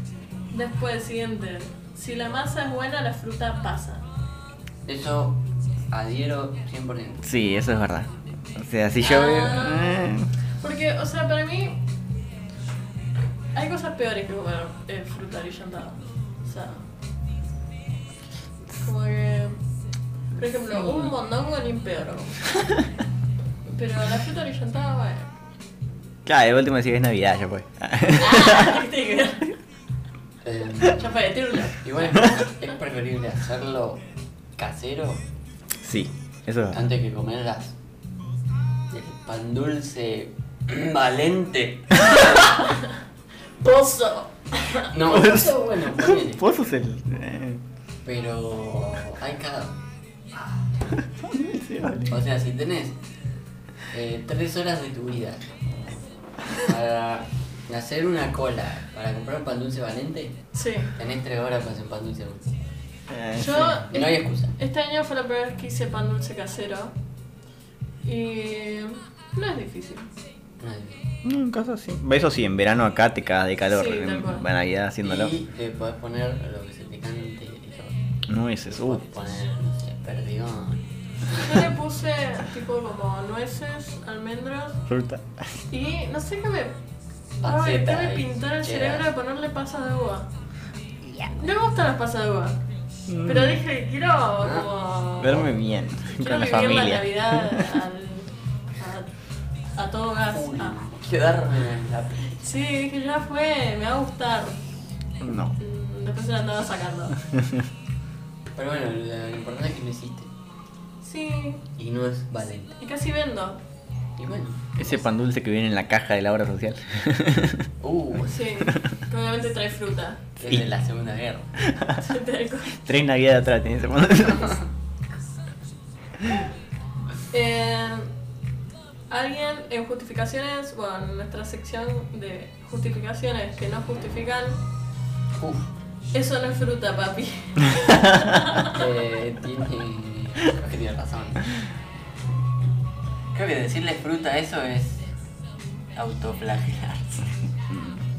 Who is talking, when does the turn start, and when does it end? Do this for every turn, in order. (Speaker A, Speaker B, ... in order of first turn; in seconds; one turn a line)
Speaker A: 0.5-4.0
Speaker B: 4.8-7.3
Speaker C: 7.2-10.3
Speaker A: 9.0-10.0
Speaker A: 10.6-11.8
Speaker A: 13.5-16.8
Speaker A: 18.8-19.6
Speaker A: 20.4-22.5
Speaker A: 23.6-25.3
Speaker C: 26.2-28.8
Speaker A: 28.1-29.5
Speaker B: 30.4-34.0
Speaker A: 30.8-32.3
Speaker B: 34.6-35.2
Speaker C: 35.8-36.9
Speaker B: 36.7-37.7
Speaker B: 38.9-42.3
Speaker A: 42.4-42.9
Speaker A: 43.6-44.9
Speaker B: 44.9-46.4
Speaker C: 45.0-47.6
Speaker B: 48.0-49.8
Speaker C: 50.9-52.2
Speaker B: 52.1-53.0
Speaker B: 53.9-55.5
Speaker B: 56.5-60.4
Speaker A: 60.5-61.0
Speaker B: 60.9-62.5
Speaker C: 63.1-63.8
Speaker A: 63.3-66.9
Speaker B: 63.4-64.5
Speaker A: 68.0-70.1
Speaker B: 70.6-71.1
Speaker C: 71.2-75.3
Speaker A: 73.7-74.5
Speaker B: 75.0-78.0
Speaker C: 78.3-79.0
Speaker B: 78.7-81.6
Speaker A: 81.3-84.8
Speaker C: 84.9-85.6
Speaker A: 85.7-86.8
Speaker B: 87.4-89.0
Speaker A: 87.4-90.3
Speaker C: 91.0-91.3
Speaker A: 91.3-92.6
Speaker C: 93.1-93.6
Speaker A: 93.2-95.5
Speaker B: 94.4-95.5
Speaker C: 95.2-97.8
Speaker A: 96.1-99.1
Speaker A: 99.7-100.8
Speaker B: 100.2-102.3
Speaker A: 102.3-104.6
Speaker C: 105.2-105.5
Speaker A: 105.6-107.2
Speaker B: 108.5-110.3
Speaker A: 111.0-111.6
Speaker B: 111.8-112.8
Speaker A: 112.8-113.6
Speaker B: 114.2-114.9
Speaker C: 114.8-117.7
Speaker B: 117.8-118.4
Speaker A: 118.2-120.2
Speaker B: 120.4-121.5
Speaker C: 121.6-122.1
Speaker A: 122.0-122.8
Speaker C: 122.7-124.6
Speaker A: 127.3-128.1
Speaker A: 129.1-134.6
Speaker B: 135.3-135.7
Speaker A: 136.1-138.8
Speaker B: 138.6-141.6
Speaker B: 143.3-145.1
Speaker B: 145.9-147.2
Speaker C: 147.7-148.0